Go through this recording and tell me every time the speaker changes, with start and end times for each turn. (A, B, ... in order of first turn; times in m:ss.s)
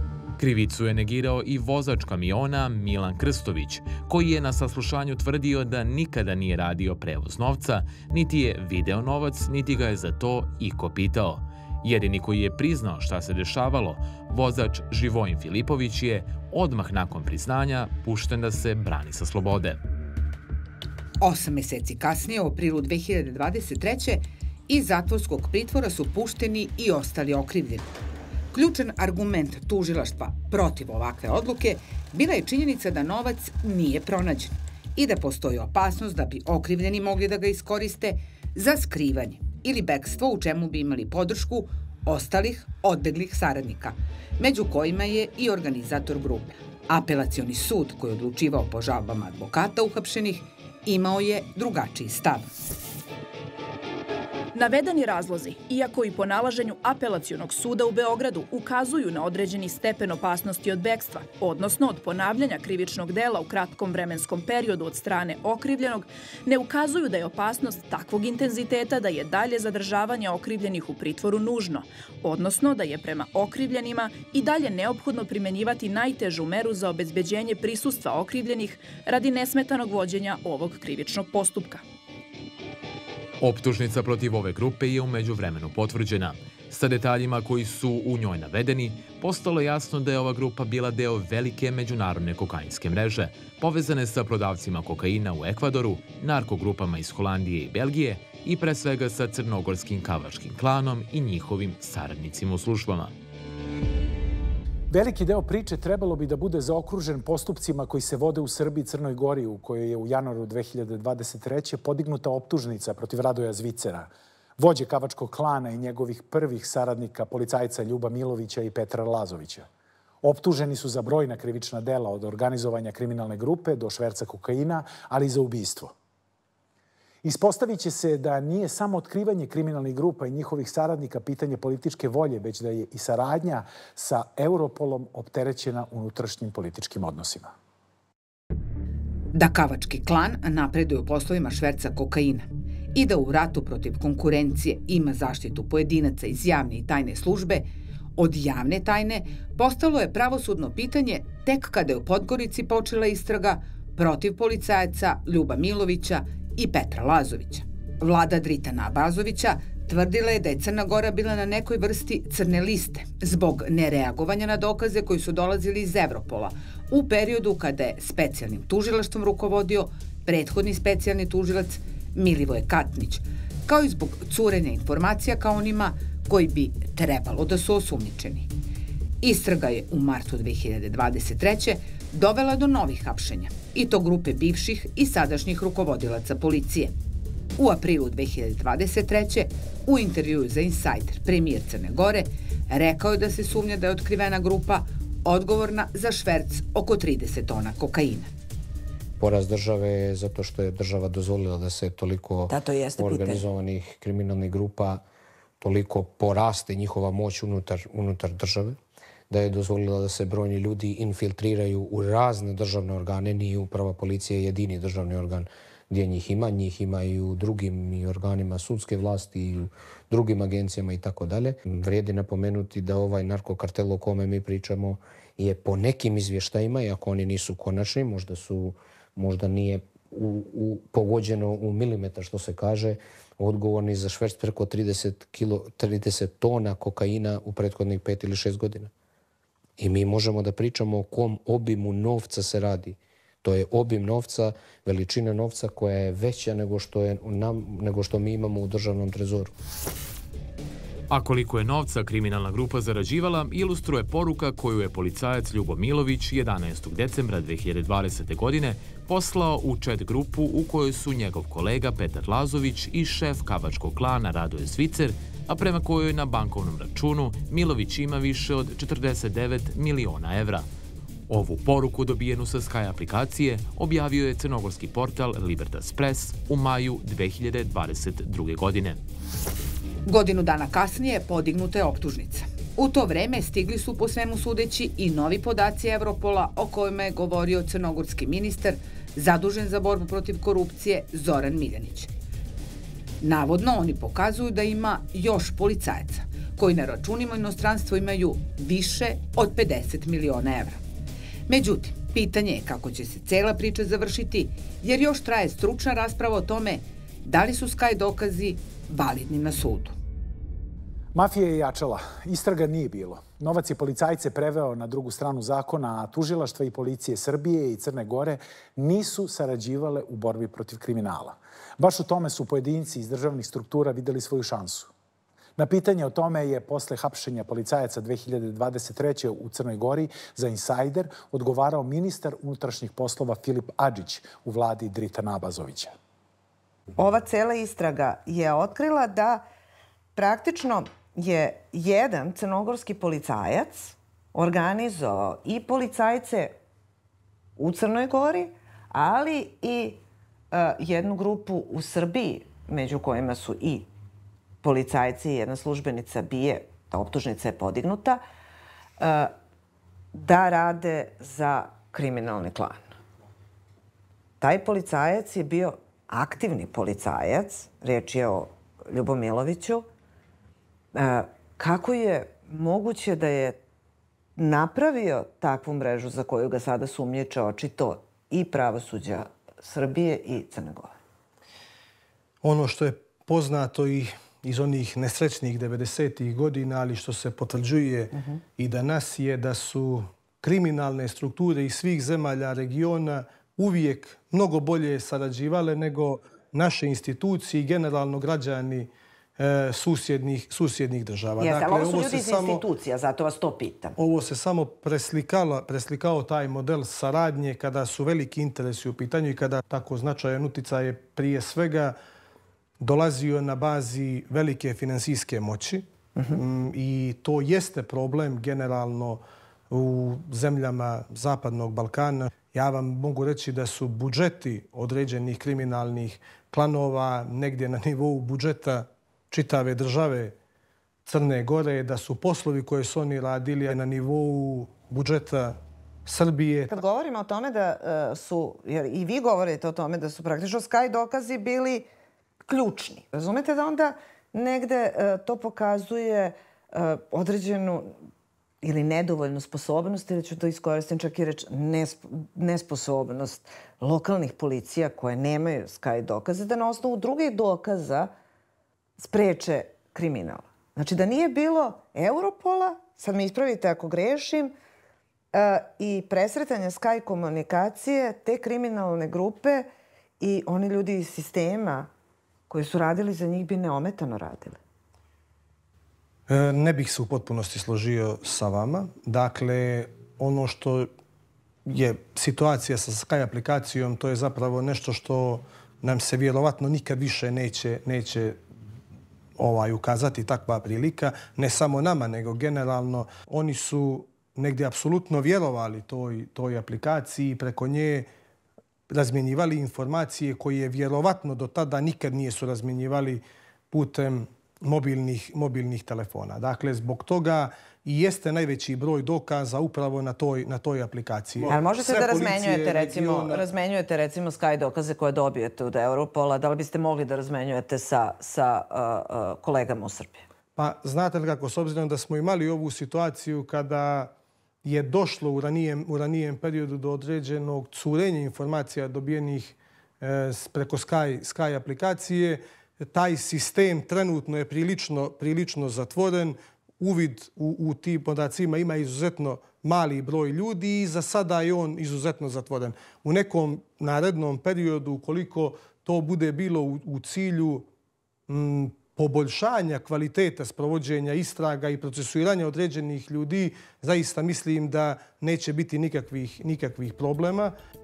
0:00.4-0:19.8 A
0:21.2-0:27.9 B
0:28.5-0:52.5 B
0:54.5-1:21.8 C
1:23.4-1:43.1 A
1:44.9-1:59.7 D
2:00.2-2:05.9 D
2:07.2-2:17.5 D
2:19.3-2:58.5 B
2:59.2-3:06.9 B
3:07.6-3:18.3 B
3:19.2-3:25.0 E
3:22.5-3:23.4 F
3:25.6-3:28.8 E
3:29.3-3:58.9 E
3:59.8-4:09.5 E
4:11.1-4:30.6 A
4:31.3-4:39.0 A
4:40.1-4:52.1 B
4:53.2-5:00.8 B
5:01.5-5:09.9 B
5:11.1-5:24.9 D
5:25.6-5:35.9 D
5:37.0-5:39.4 F
5:40.2-5:46.6 F
5:47.6-5:53.9 F
5:54.6-5:58.2 F
5:59.0-5:59.3 F
6:00.1-6:03.0 F
6:04.4-6:09.9 F
6:10.9-6:13.6 F
6:14.4-6:21.0 F
6:22.4-6:42.6 G
6:28.1-6:28.4 F
6:41.4-6:44.0 F
6:44.0-6:51.9 G
6:52.8-7:10.3 G
6:56.2-6:56.4 F
7:11.0-7:16.7 G
7:16.7-7:21.9 F
7:22.4-7:27.9 F
7:28.6-7:38.1 F
7:39.0-7:44.5 F
7:45.3-7:51.9 F
7:52.5-7:54.6 F
7:56.3-8:00.9 G
8:01.6-8:08.4 G
8:09.4-8:18.1 G
8:18.9-8:33.4 G
8:31.4-8:40.2 F
8:40.6-8:44.1 G
8:44.6-9:07.7 G
9:08.3-9:17.5 G